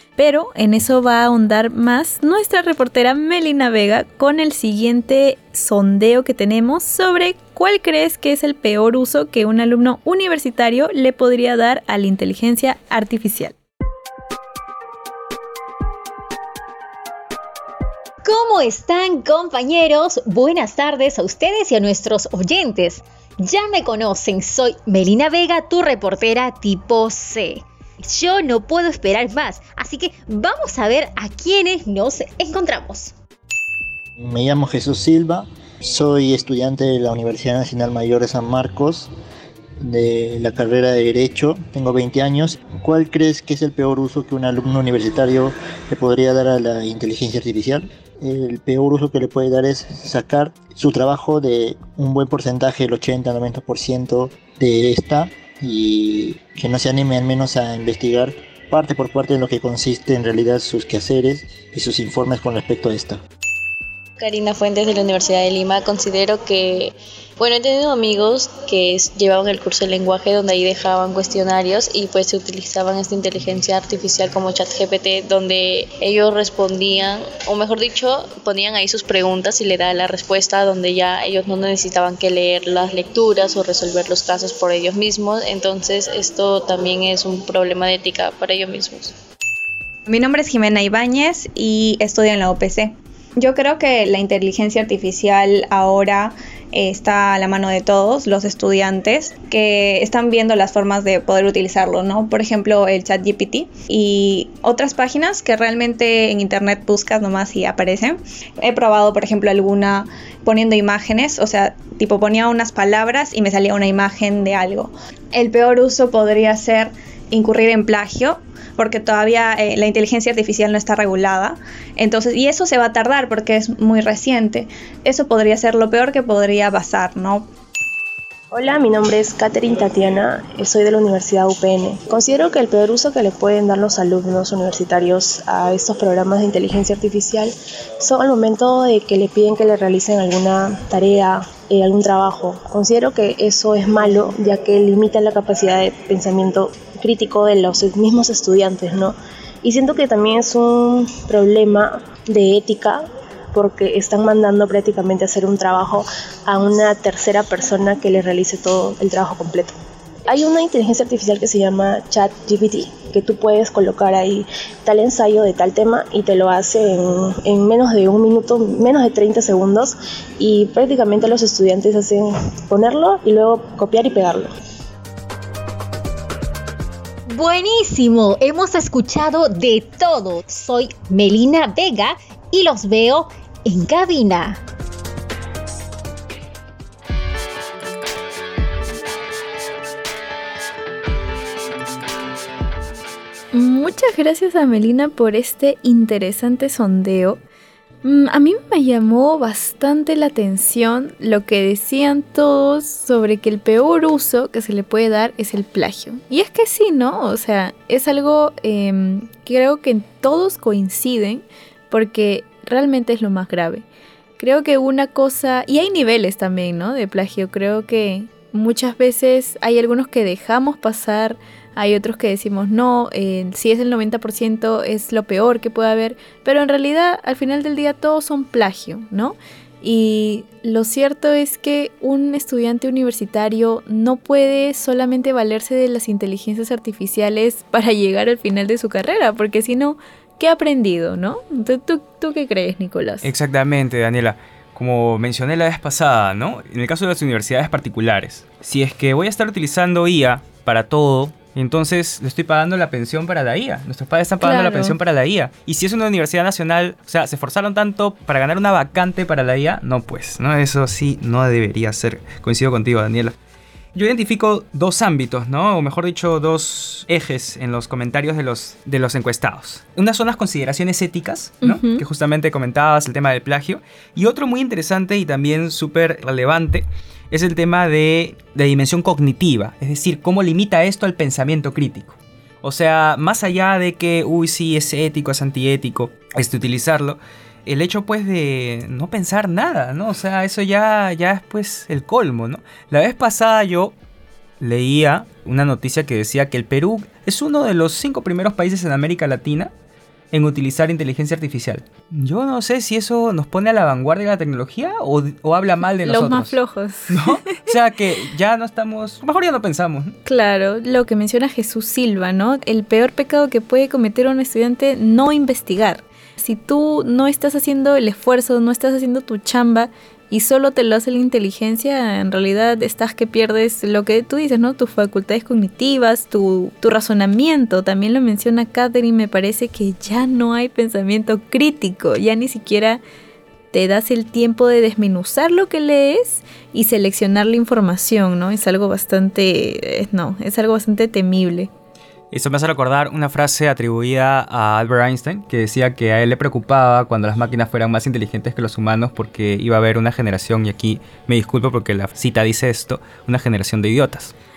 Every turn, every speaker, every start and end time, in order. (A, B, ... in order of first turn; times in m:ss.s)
0:00.2-0:13.5 A
0:18.2-0:33.1 B
0:34.2-0:39.1 C
0:39.8-1:03.2 C
1:04.2-1:29.2 D
1:30.1-2:07.5 E
2:08.5-2:39.8 F
2:40.3-2:54.5 F
2:57.3-3:04.6 B
3:13.5-3:17.4 A
3:18.0-3:33.8 A
3:34.4-4:03.3 A
4:03.2-4:23.3 G
4:14.4-4:15.0 A
4:23.9-4:53.9 G
4:31.6-4:32.0 A
4:54.6-4:59.7 G
5:00.3-5:06.6 G
5:06.0-5:07.7 A
5:07.1-5:10.2 G
5:10.2-5:33.0 A
5:33.7-5:41.7 A
5:42.3-5:54.3 G